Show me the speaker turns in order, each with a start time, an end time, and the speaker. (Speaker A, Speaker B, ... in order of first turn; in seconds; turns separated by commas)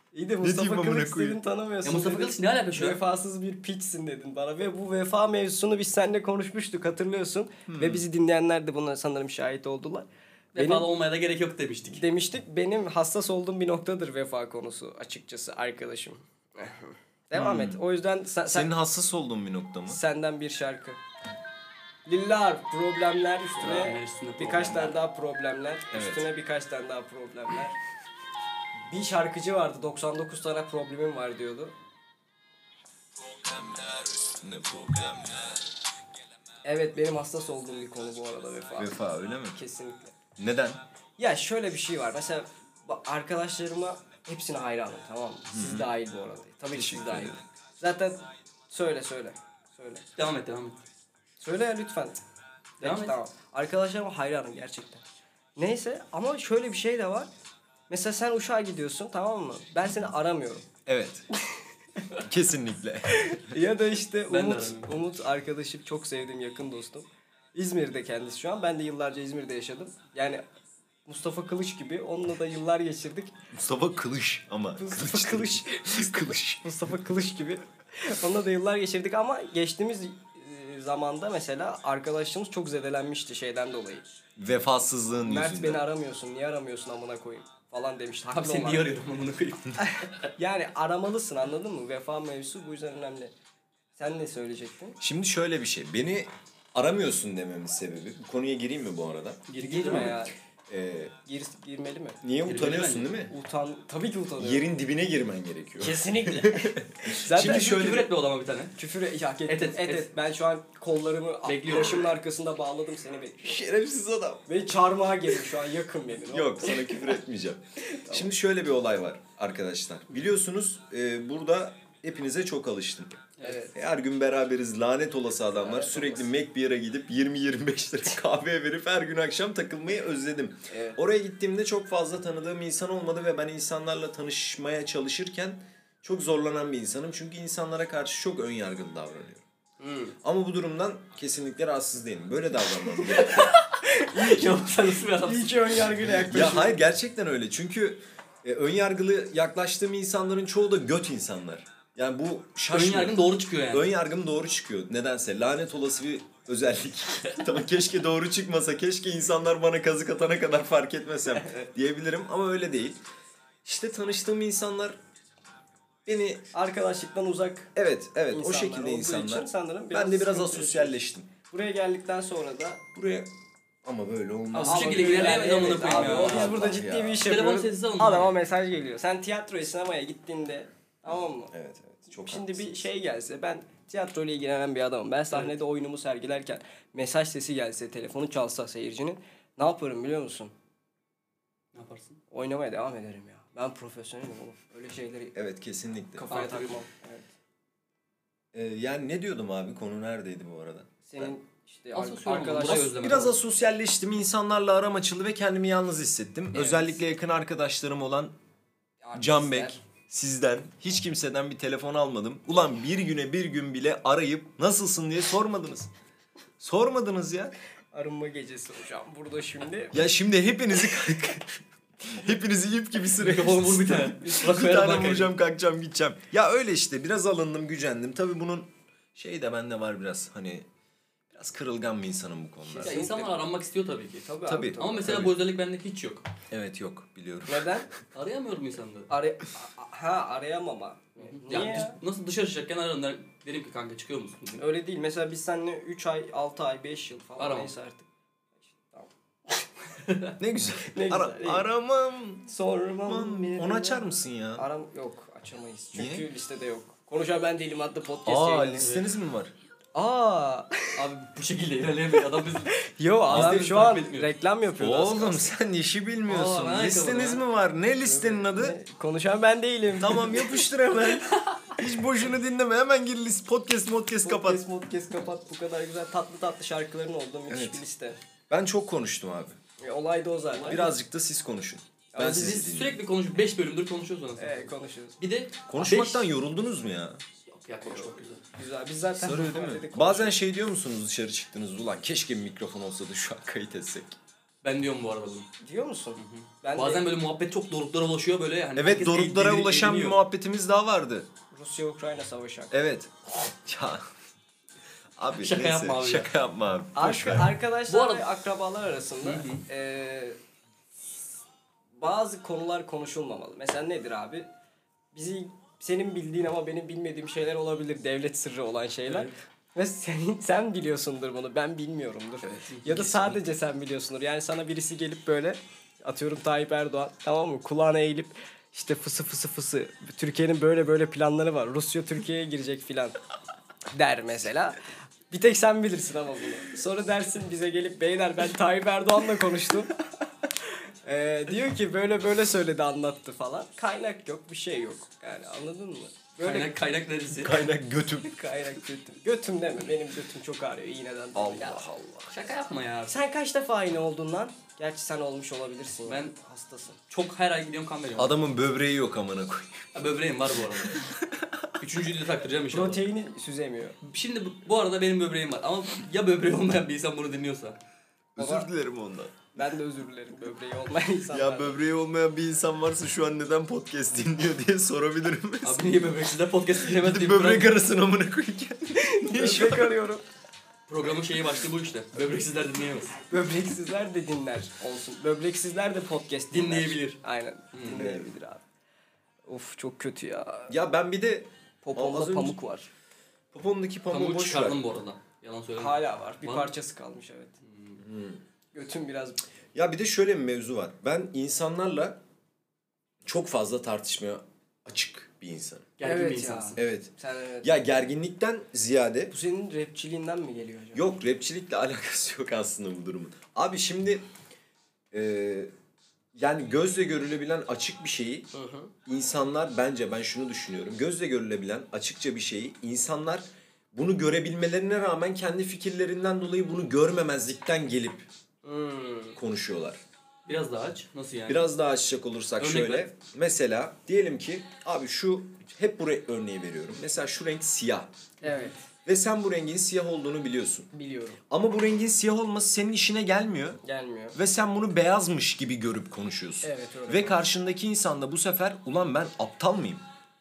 Speaker A: 0.1-10.9, Speaker B: 0.4-1.4, Speaker C: 1.8-3.0, Speaker B: 7.7-8.0, Speaker C: 10.5-12.0, Speaker A: 11.9-18.7, Speaker B: 17.3-17.8, Speaker B: 18.5-20.0, Speaker A: 19.9-21.0, Speaker A: 22.1-27.8, Speaker C: 23.6-25.0, Speaker B: 25.9-26.3, Speaker A: 28.9-31.7, Speaker B: 33.3-35.6, Speaker A: 36.6-38.9, Speaker B: 38.8-39.6, Speaker A: 39.5-40.1, Speaker B: 40.4-40.8, Speaker A: 41.2-50.0, Speaker B: 45.5-45.9, Speaker B: 46.7-47.4, Speaker C: 50.2-50.8, Speaker A: 51.4-52.2, Speaker C: 52.8-53.1, Speaker A: 52.8-55.0, Speaker A: 55.5-57.3, Speaker A: 57.9-60.6, Speaker B: 60.9-61.2, Speaker B: 62.2-63.6, Speaker A: 63.2-70.4, Speaker C: 64.3-65.0, Speaker A: 71.0-73.3, Speaker B: 73.5-76.6, Speaker A: 74.8-84.0, Speaker B: 84.4-85.8, Speaker A: 85.2-88.9, Speaker C: 88.3-90.1, Speaker A: 89.8-93.3, Speaker A: 94.0-95.0, Speaker B: 95.0-101.1, Speaker C: 99.5-100.2, Speaker A: 99.6-100.3, Speaker A: 101.2-102.2, Speaker B: 102.2-103.3, Speaker C: 102.4-103.1, Speaker A: 103.3-104.7, Speaker B: 104.4-108.1, Speaker A: 105.8-107.9, Speaker C: 107.3-108.7, Speaker A: 108.8-113.6, Speaker C: 109.5-110.1, Speaker C: 111.5-112.1, Speaker B: 113.4-114.5, Speaker A: 114.5-117.2, Speaker B: 116.3-139.4, Speaker A: 117.9-118.2, Speaker A: 123.4-123.7, Speaker A: 125.5-126.3, Speaker A: 130.7-131.0, Speaker A: 139.8-140.2, Speaker B: 140.2-143.6, Speaker C: 143.1-145.9, Speaker A: 143.8-146.8, Speaker B: 146.1-163.0, Speaker C: 152.7-153.9, Speaker B: 163.6-165.0, Speaker B: 166.1-166.5, Speaker A: 166.5-167.7, Speaker B: 167.7-171.3, Speaker A: 168.3-172.8, Speaker B: 172.9-173.3, Speaker B: 173.8-177.3, Speaker A: 174.5-181.5, Speaker C: 174.6-178.3, Speaker B: 181.5-182.8, Speaker A: 182.1-190.5, Speaker C: 191.7-192.2, Speaker A: 192.3-195.3, Speaker B: 195.3-196.3, Speaker A: 196.1-197.3, Speaker C: 196.3-196.8, Speaker B: 198.5-201.3, Speaker A: 201.1-203.0, Speaker C: 201.9-203.3, Speaker B: 202.6-208.3, Speaker A: 206.6-206.8, Speaker A: 209.0-209.8, Speaker B: 209.1-215.9, Speaker B: 216.6-217.6, Speaker A: 217.9-220.0, Speaker B: 219.9-230.7, Speaker C: 223.2-225.3, Speaker B: 231.3-233.1, Speaker A: 232.6-233.4, Speaker C: 232.8-236.3, Speaker A: 234.2-235.3, Speaker B: 234.5-235.3, Speaker B: 236.5-237.9, Speaker A: 237.5-237.9, Speaker C: 238.1-239.1, Speaker A: 239.1-242.0, Speaker C: 241.2-244.6, Speaker A: 244.6-248.1, Speaker C: 247.4-247.7, Speaker A: 248.6-249.7, Speaker C: 250.0-250.3, Speaker B: 250.4-252.5, Speaker A: 250.9-251.7, Speaker A: 252.4-258.9, Speaker B: 253.1-254.7, Speaker B: 255.9-256.3, Speaker B: 258.2-259.5, Speaker C: 258.8-259.1, Speaker A: 259.9-261.0, Speaker C: 260.9-262.7, Speaker A: 262.7-265.5, Speaker C: 263.2-264.3, Speaker B: 263.3-263.8, Speaker B: 264.8-268.8, Speaker C: 266.3-267.4, Speaker A: 268.0-270.7, Speaker B: 270.0-274.6, Speaker C: 271.3-271.7, Speaker A: 274.2-278.2, Speaker B: 277.5-277.8, Speaker B: 278.5-279.6, Speaker A: 279.8-280.9, Speaker C: 280.5-280.9, Speaker B: 280.7-283.0, Speaker A: 282.1-282.7, Speaker C: 282.3-286.2, Speaker A: 284.4-285.2, Speaker B: 285.7-287.2, Speaker C: 287.4-288.4, Speaker A: 288.5-290.4, Speaker B: 289.1-294.2, Speaker C: 294.6-295.5, Speaker A: 295.6-297.0, Speaker C: 296.2-300.2, Speaker B: 298.8-301.3, Speaker A: 301.5-302.7, Speaker B: 302.7-304.1, Speaker B: 305.2-307.5, Speaker C: 305.4-306.3, Speaker A: 306.9-310.4, Speaker C: 307.9-308.2, Speaker C: 309.2-309.6, Speaker A: 312.0-314.5, Speaker A: 315.1-333.2, Speaker C: 319.1-319.3, Speaker C: 322.7-322.9, Speaker B: 322.9-323.4, Speaker A: 333.9-334.8, Speaker A: 335.3-340.0, Speaker A: 340.7-346.8, Speaker C: 346.4-347.6, Speaker B: 347.3-348.4, Speaker A: 348.2-351.9, Speaker B: 351.3-352.3, Speaker C: 352.3-353.1, Speaker A: 353.1-357.0, Speaker C: 356.1-356.3, Speaker C: 357.1-358.4, Speaker B: 358.2-360.1, Speaker C: 359.9-361.0, Speaker B: 360.8-361.7, Speaker C: 361.8-363.0, Speaker A: 362.7-364.0, Speaker C: 364.0-367.8, Speaker B: 368.4-369.5, Speaker A: 368.4-368.7, Speaker A: 369.5-371.8, Speaker B: 371.3-375.9, Speaker C: 375.6-377.7, Speaker B: 376.8-380.0, Speaker A: 378.9-380.2, Speaker C: 380.9-383.2, Speaker A: 383.3-388.6, Speaker C: 386.5-387.2, Speaker C: 387.7-388.1, Speaker B: 387.9-388.2, Speaker A: 389.4-390.7, Speaker B: 390.7-392.6, Speaker A: 391.8-392.9, Speaker B: 393.5-394.8, Speaker C: 394.1-396.7, Speaker A: 395.8-397.5, Speaker C: 397.6-398.0, Speaker B: 398.0-398.4, Speaker A: 398.7-399.4, Speaker B: 399.7-402.2, Speaker B: 403.2-405.9, Speaker C: 406.0-406.8, Speaker A: 406.0-407.7, Speaker B: 406.8-407.1, Speaker B: 407.6-409.3, Speaker A: 409.3-411.1, Speaker B: 410.9-414.2, Speaker B: 415.1-415.7, Speaker B: 416.3-418.5, Speaker A: 418.5-418.9, Speaker B: 419.1-428.2, Speaker A: 428.6-429.4, Speaker B: 429.4-430.0, Speaker C: 430.4-431.7, Speaker B: 431.5-438.1, Speaker C: 432.6-433.1, Speaker A: 438.4-438.8, Speaker C: 438.4-438.7, Speaker B: 439.0-440.9, Speaker A: 440.9-441.4, Speaker B: 441.5-443.8, Speaker A: 443.8-444.4, Speaker B: 444.3-450.0, Speaker A: 446.6-447.4